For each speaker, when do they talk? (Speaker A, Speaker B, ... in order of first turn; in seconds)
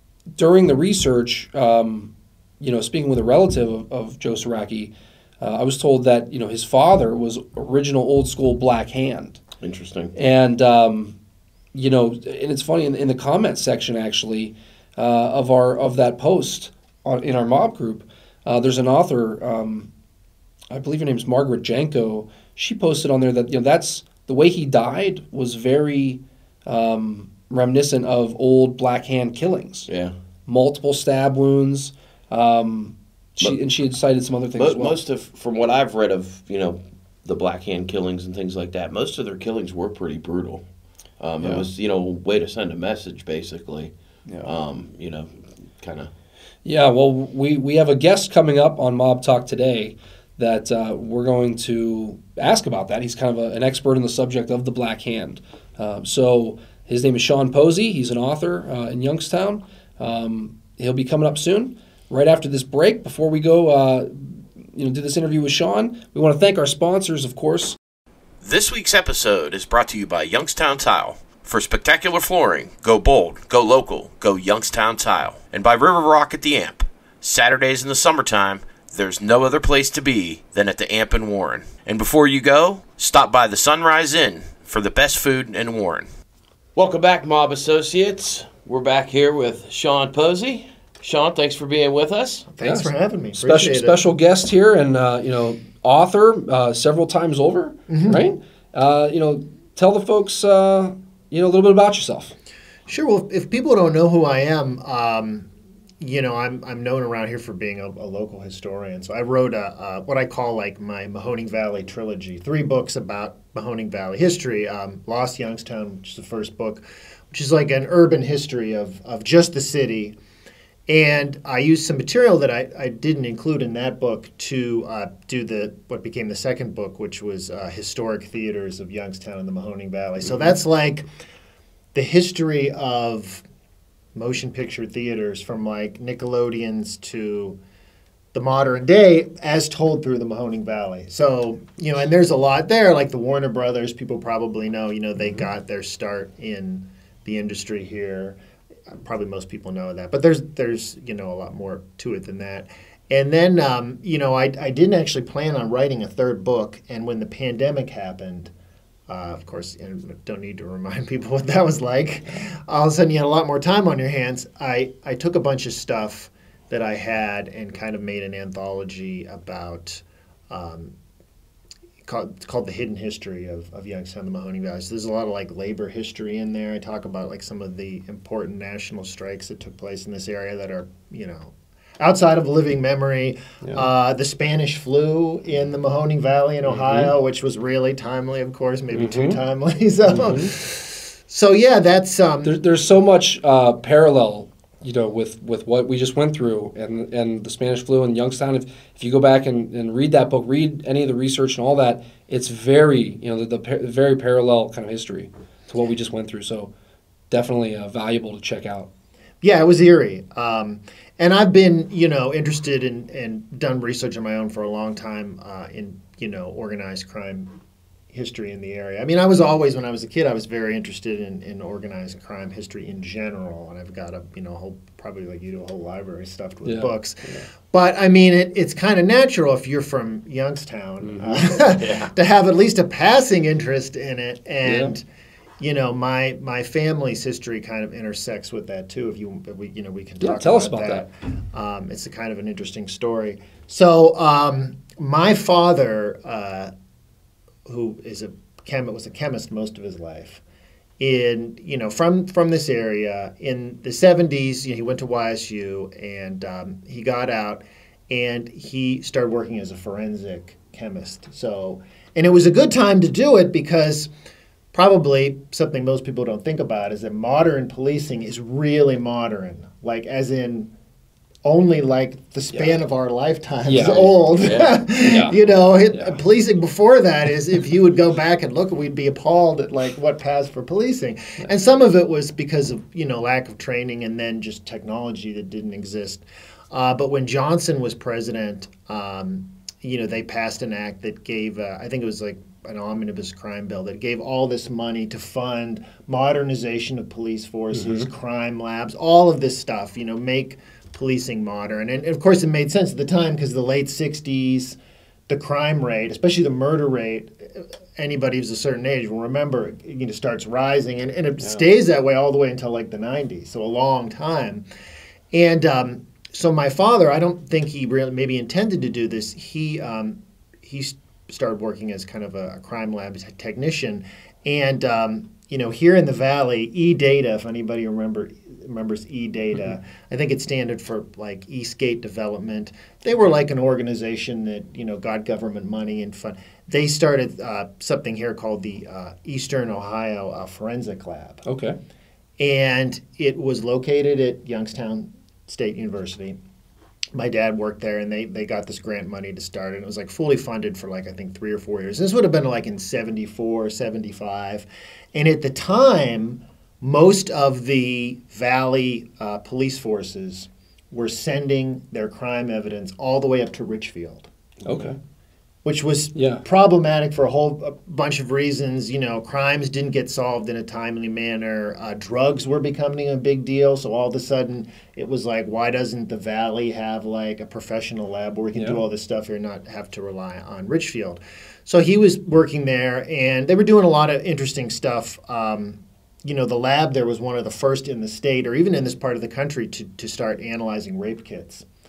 Speaker A: 0.3-9.4, 10.2-11.1, 11.7-19.9, 20.7-29.9, 30.5-35.0, 41.4-41.7, 46.6-67.8, 92.6-102.3, 186.6-187.1, 188.9-189.4, 190.1-190.5, 192.4-206.7, 207.3-208.9, 226.6-227.5, 231.0-231.6, 234.6-234.9, 240.2-241.0, 273.7-274.1, 275.0-275.4, 275.9-276.2, 297.7-298.1, 341.4-341.8, 364.6-365.0, 366.1-366.4
Speaker B: 9.6-10.1, 29.9-30.1, 34.5-40.6, 41.2-43.9, 44.4-46.1, 68.4-86.1, 86.8-92.5, 231.8-232.1, 274.4-274.8
Speaker C: 92.5-94.0, 97.9-98.2, 102.9-105.5, 106.0-120.1, 120.9-131.0, 131.9-133.4, 134.1-137.6, 138.3-148.4, 148.9-158.5, 159.1-170.9, 172.1-192.6, 209.4-217.5, 218.1-235.0, 235.6-246.7, 247.7-250.4, 251.0-264.1, 264.7-270.7, 271.4-314.6, 315.3-341.4, 342.4-346.4, 347.1-364.3, 365.6-391.6